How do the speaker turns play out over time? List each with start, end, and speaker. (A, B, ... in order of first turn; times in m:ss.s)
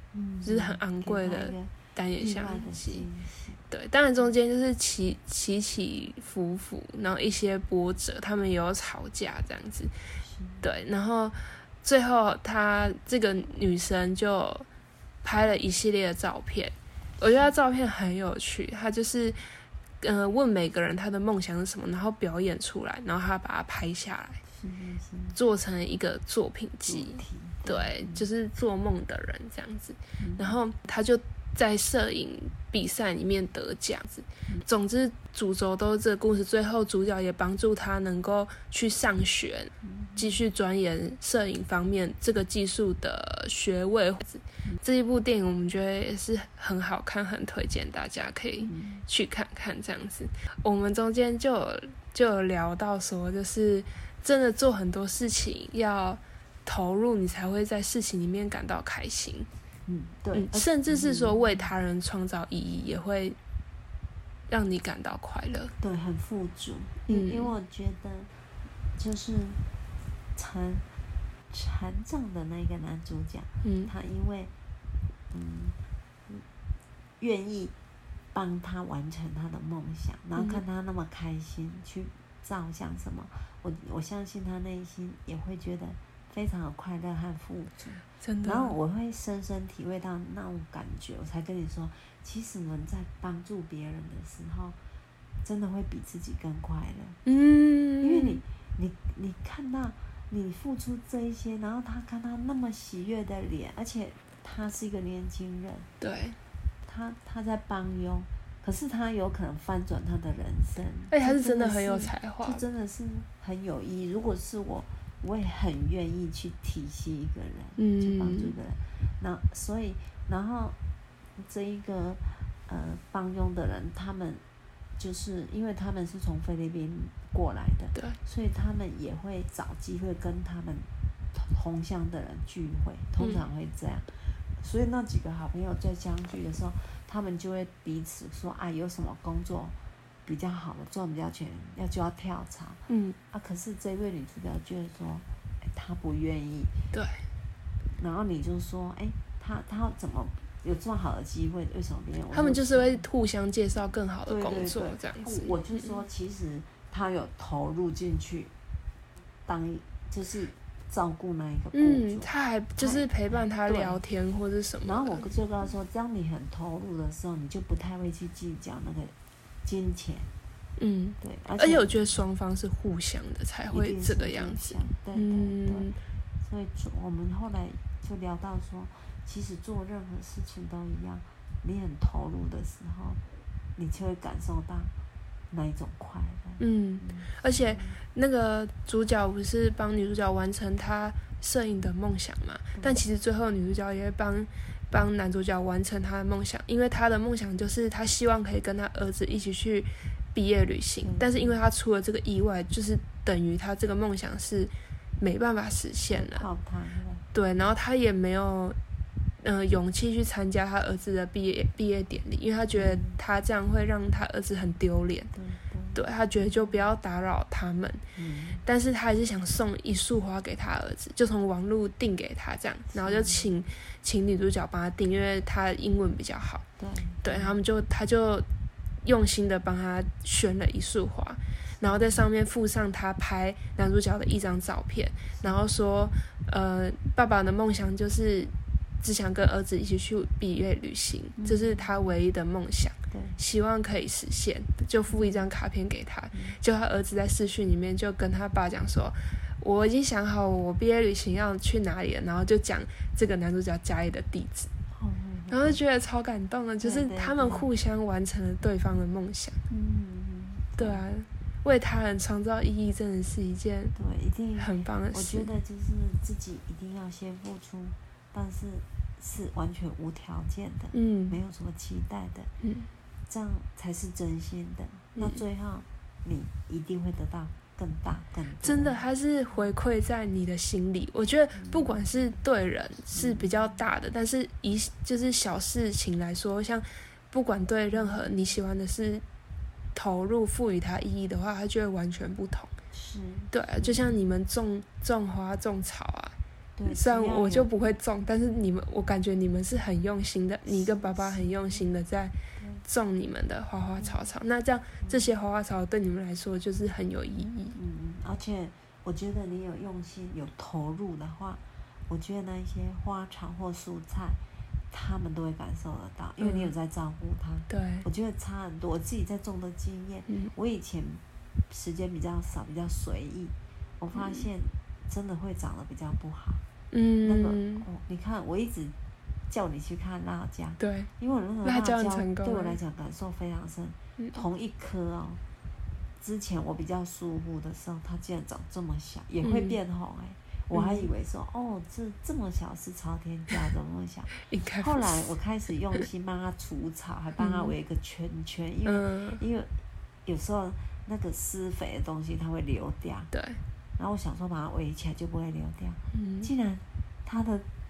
0:00.1-0:03.6 A
0:00.4-0:03.0 B
0:03.7-0:09.9 B
0:10.2-0:10.7 A
0:10.6-0:14.7 B
0:15.2-0:19.4 B
0:20.0-0:24.4 B
0:24.5-0:25.4 A
0:25.4-0:59.5 B
0:26.8-0:28.3 A
0:30.2-0:30.6 A
0:39.8-0:40.4 A
0:48.7-0:49.0 A
0:59.9-1:01.7 A
1:00.3-1:03.4 B
1:04.5-1:05.7 B
1:05.8-1:08.3 A
1:07.1-1:07.5 B
1:09.0-1:09.6 A
1:10.4-1:10.8 A
1:11.5-1:14.5 A
1:13.6-1:13.9 B
1:15.3-1:15.8 A
1:17.2-1:17.7 A
1:18.3-1:34.8 A
1:20.4-1:20.6 B
1:28.2-1:28.8 B
1:35.4-1:37.2 A
1:37.2-1:38.4 B
1:38.0-1:45.9 A
1:46.0-1:46.4 B
1:46.8-2:00.8 A
1:51.1-1:52.6 B
1:57.8-1:58.6 B
2:01.4-2:04.4 A
2:05.0-2:26.7 A
2:22.9-2:23.2 B
2:26.9-2:27.2 B
2:28.0-2:33.1 A
2:32.3-2:35.8 B
2:34.3-2:38.5 A
2:39.5-2:44.0 A
2:41.7-2:45.3 B
2:44.8-2:49.1 A
2:49.6-2:50.3 A
2:50.8-2:56.0 B
2:51.2-2:52.2 A
2:53.7-2:55.9 A
2:56.4-3:03.2 A
3:03.8-3:04.9 A
3:05.5-3:08.0 A
3:06.6-3:26.5 B
3:12.8-3:13.0 A
3:21.0-3:21.6 A
3:26.1-3:27.7 A
3:27.3-3:28.8 B
3:29.4-3:35.3 B
3:32.7-3:33.2 A
3:35.3-3:36.9 A
3:35.9-3:38.0 B
3:38.2-3:38.6 A
3:38.6-3:46.6 B
3:42.9-3:43.5 A
3:46.8-3:47.6 A
3:47.2-3:48.5 B
3:49.0-4:14.7 B
3:51.8-3:52.3 A
4:01.4-4:02.2 A
4:03.1-4:03.4 A
4:05.1-4:05.5 A
4:06.3-4:06.6 A
4:14.9-4:15.8 A
4:15.5-4:19.6 B
4:16.8-4:17.7 A
4:19.7-4:21.0 A
4:20.8-4:24.0 B
4:24.0-4:32.5 A
4:24.6-4:25.5 B
4:30.9-4:31.4 B
4:32.6-4:32.9 B
4:33.3-4:39.7 A
4:35.2-4:35.4 B
4:38.6-4:49.2 B
4:41.5-4:42.0 A
4:43.1-4:43.5 A
4:47.9-4:48.4 A
4:49.9-4:52.7 B
4:52.9-4:54.2 A
4:53.5-4:56.4 B
4:56.8-4:57.7 A
4:56.9-5:07.8 B
5:00.7-5:01.9 A
5:02.6-5:02.8 A
5:04.0-5:04.3 A
5:05.0-5:05.3 A
5:07.8-5:14.4 A
5:14.9-5:26.6 A
5:16.4-5:16.7 B
5:17.7-5:18.1 B
5:24.2-5:24.5 B
5:26.9-5:27.9 B
5:27.2-5:29.0 A
5:29.5-5:35.4 A
5:30.8-5:31.1 B
5:31.6-5:32.8 B
5:36.2-5:49.7 A
5:39.4-5:39.8 B
5:40.7-5:41.1 B
5:44.4-5:45.3 B
5:47.4-5:47.7 B
5:48.9-5:49.4 B
5:50.2-5:53.3 A
5:53.3-5:53.6 B
5:54.0-5:57.7 A
5:56.1-5:56.5 B